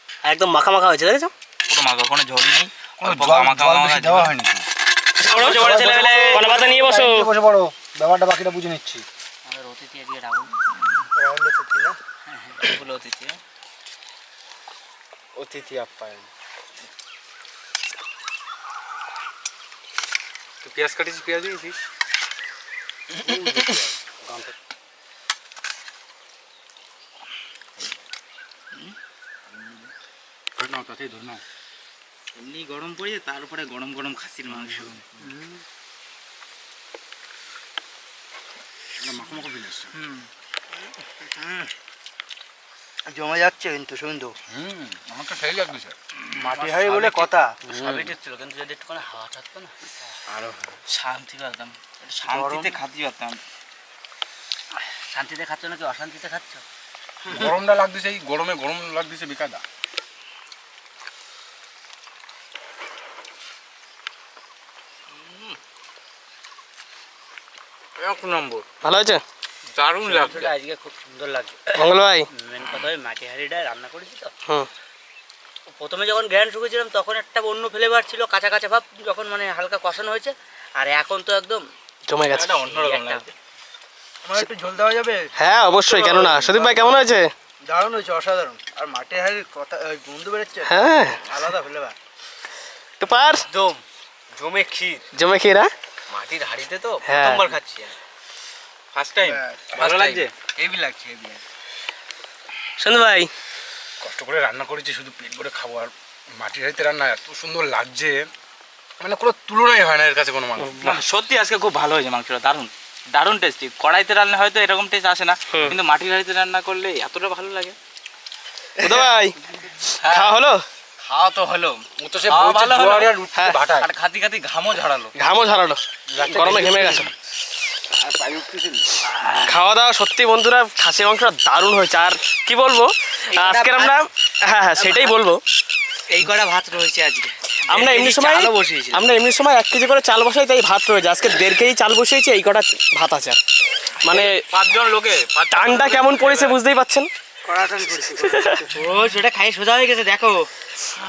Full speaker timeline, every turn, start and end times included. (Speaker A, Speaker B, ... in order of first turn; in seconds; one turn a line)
Speaker A: 0.3-1.3
Speaker B: 0.8-1.2
Speaker C: 1.7-4.3
Speaker D: 3.0-4.7
Speaker A: 5.2-7.3
Speaker C: 5.2-6.4
Speaker D: 5.5-9.1
Speaker B: 9.4-10.6
Speaker E: 11.2-11.9
Speaker D: 11.2-11.8
Speaker B: 12.2-13.3
Speaker D: 15.3-16.3
Speaker D: 20.6-21.8
Speaker D: 23.2-24.5
Speaker D: 30.6-31.4
Speaker C: 32.4-35.2
Speaker D: 34.5-34.9
Speaker D: 39.0-39.9
Speaker E: 43.1-44.3
Speaker D: 44.5-46.0
Speaker E: 46.4-47.6
Speaker B: 46.6-49.7
Speaker D: 47.7-48.1
Speaker D: 50.3-50.8
Speaker C: 50.9-51.7
Speaker B: 51.9-52.8
Speaker E: 52.3-52.8
Speaker C: 52.3-53.4
Speaker B: 55.0-56.6
Speaker D: 57.2-59.6
Speaker C: 68.0-68.6
Speaker A: 68.8-69.2
Speaker C: 69.8-70.5
Speaker B: 70.0-71.7
Speaker A: 71.7-72.3
Speaker B: 72.3-74.3
Speaker B: 75.7-81.7
Speaker A: 82.1-82.5
Speaker C: 82.3-83.3
Speaker B: 82.6-83.3
Speaker E: 84.2-85.3
Speaker A: 85.4-87.3
Speaker E: 85.9-87.0
Speaker E: 87.6-91.9
Speaker A: 90.7-91.2
Speaker A: 93.0-93.4
Speaker B: 93.4-93.8
Speaker B: 94.3-95.0
Speaker A: 95.1-95.7
Speaker B: 96.1-97.9
Speaker A: 97.0-97.5
Speaker B: 99.0-101.4
Speaker E: 99.2-99.6
Speaker D: 99.7-100.3
Speaker A: 102.8-103.3
Speaker D: 104.0-108.3
Speaker D: 109.0-111.0
Speaker A: 110.6-110.8
Speaker C: 110.8-117.8
Speaker A: 118.8-119.3
Speaker C: 118.8-119.1
Speaker A: 120.0-120.6
Speaker C: 121.0-123.2
Speaker D: 122.0-123.9
Speaker C: 123.8-125.1
Speaker A: 125.1-127.1
Speaker D: 126.1-127.1
Speaker D: 127.9-128.9
Speaker A: 129.4-135.4
Speaker B: 133.3-134.1
Speaker B: 134.8-135.2
Speaker B: 136.1-139.0
Speaker A: 137.7-143.4
Speaker A: 144.0-144.3
Speaker C: 144.5-146.5
Speaker A: 145.5-147.1
Speaker E: 147.4-148.8
Speaker A: 148.3-148.6
Speaker B: 148.7-150.5